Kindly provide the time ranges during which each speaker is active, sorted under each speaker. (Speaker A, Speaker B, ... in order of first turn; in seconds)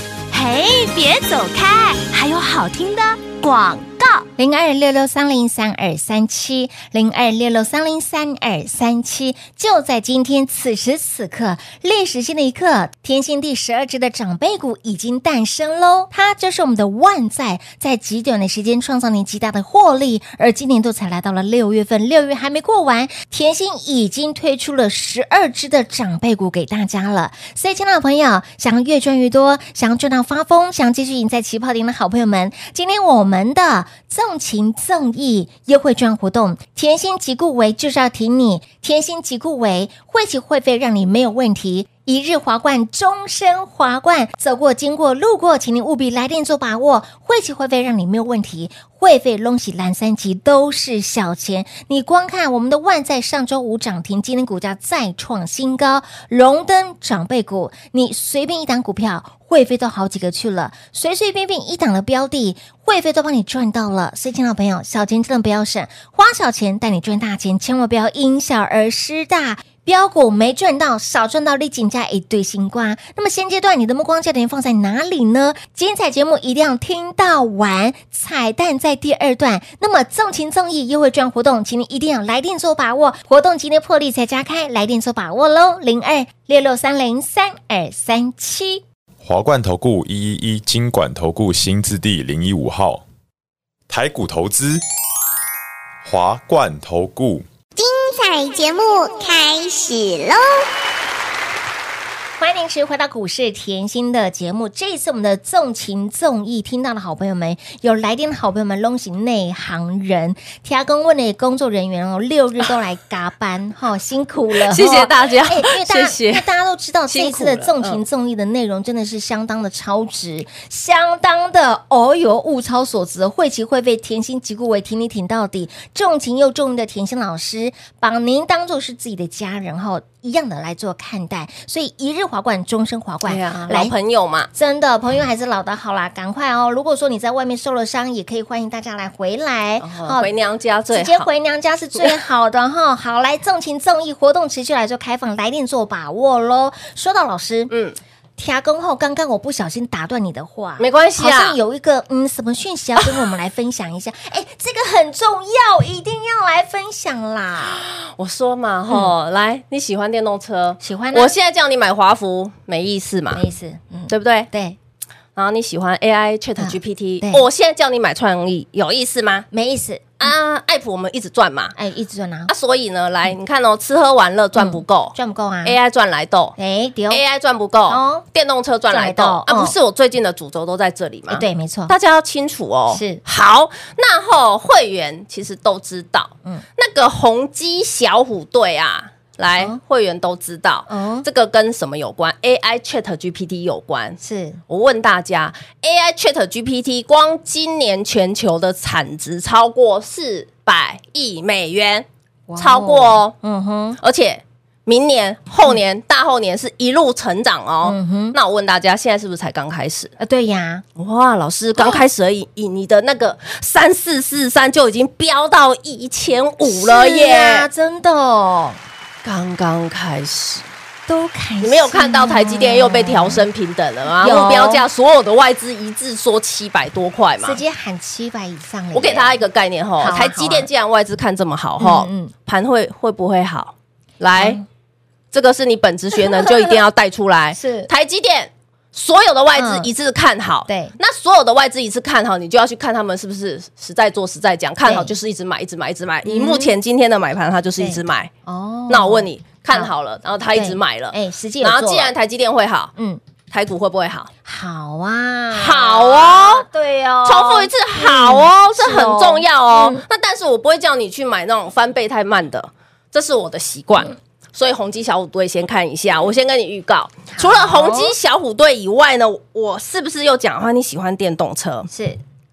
Speaker A: 0.3-4.2
Speaker B: 4.4-88.8, 102.4-133.9, 134.5-140.3, 140.9-147.7, 148.4-157.8, 160.8-161.3, 163.3-164.8, 166.6-167.4, 169.5-170.3, 171.8-172.5, 174.5-175.8, 176.6-177.2, 177.9-178.2, 178.9-179.7, 181.3-181.9, 182.9-183.2, 190.9-191.2, 194.2-194.6, 202.5-204.0, 207.8-208.3, 210.2-210.8, 216.6-218.8, 221.1-223.4, 224.2-224.8, 227.4-229.4, 230.0-230.7, 231.8-232.3, 234.3-234.6, 236.2-236.7, 237.5-237.9, 239.6-239.9, 240.7-240.9, 244.8-245.1, 246.2-246.7, 247.8-249.9, 250.5-252.1, 254.4-260.0, 267.4-268.1, 271.9-272.2
Speaker C: 89.2-93.0, 93.9-94.8, 96.0-97.5
Speaker D: 97.8-100.5
Speaker E: 114.7-116.4, 117.1-118.0, 133.2-134.5, 139.8-141.3, 147.7-148.0, 150.8-151.6, 157.7-163.4, 164.1-164.5, 165.3-169.5, 170.2-171.7, 172.5-176.5, 177.1-202.1, 202.6-203.3, 204.0-210.1, 211.0-217.7, 219.2-220.7, 221.6-227.6, 228.9-234.6, 235.3-248.3, 248.9-252.9, 253.5-254.3, 255.5-256.6, 257.2-271.9